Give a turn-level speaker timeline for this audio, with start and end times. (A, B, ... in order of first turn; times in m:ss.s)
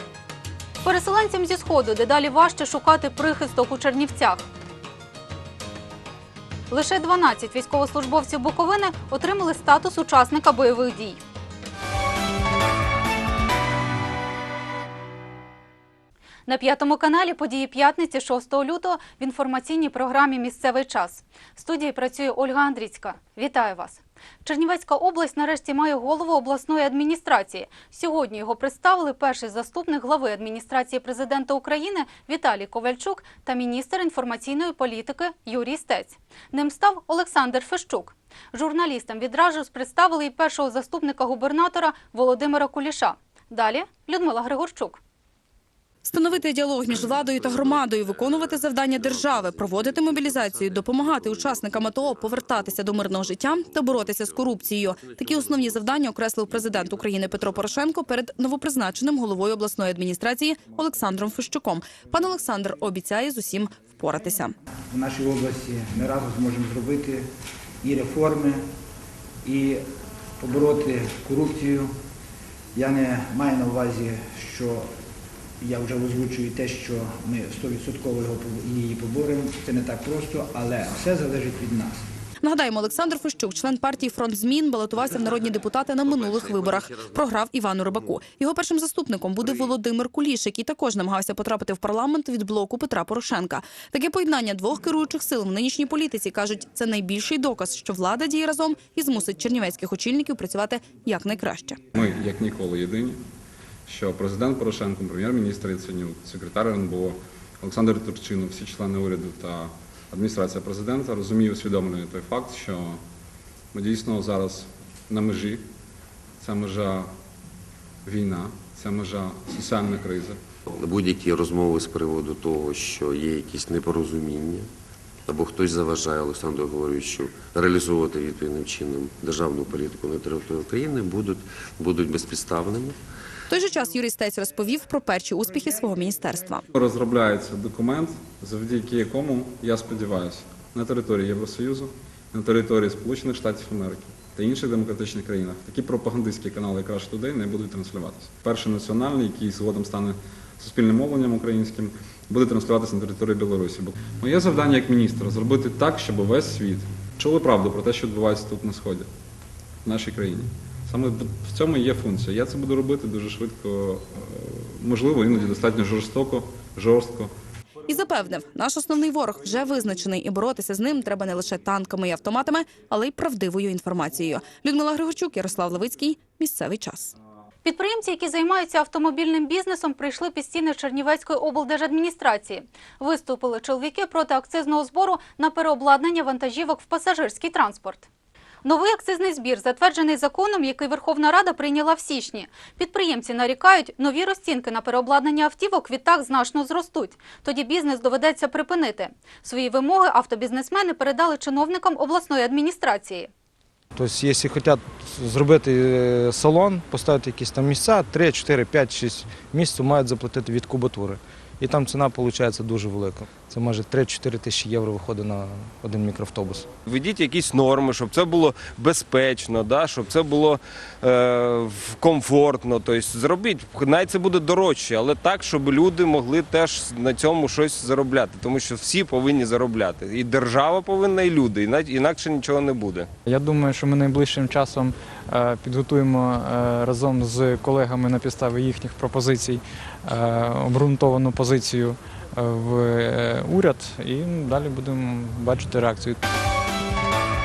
0:00.8-0:04.4 A
0:06.7-0:11.2 A
0:16.4-0:45.0 A
0:46.0-1:04.5 B
0:47.4-0:47.7 C
0:49.1-0:51.7 C
1:04.9-1:07.2 D
1:07.8-1:08.6 D
1:09.4-1:09.8 D
1:10.4-1:11.9 D
1:12.7-1:14.8 D
1:15.6-1:22.0 D
1:22.4-1:41.8 B
1:26.1-1:27.0 C
1:41.9-1:43.2 E
1:43.9-1:53.0 E
1:53.7-1:55.6 E
1:56.4-1:57.1 E
1:58.0-2:00.4 E
2:00.7-2:04.7 C
2:05.3-2:13.0 C
2:13.5-2:16.6 B
2:16.7-2:39.1 E
2:39.8-2:47.3 E
2:47.9-2:57.1 B
2:57.6-3:08.1 A
3:08.6-3:23.3 A
3:24.0-3:36.6 F
3:36.8-3:53.1 G
3:53.2-4:06.2 H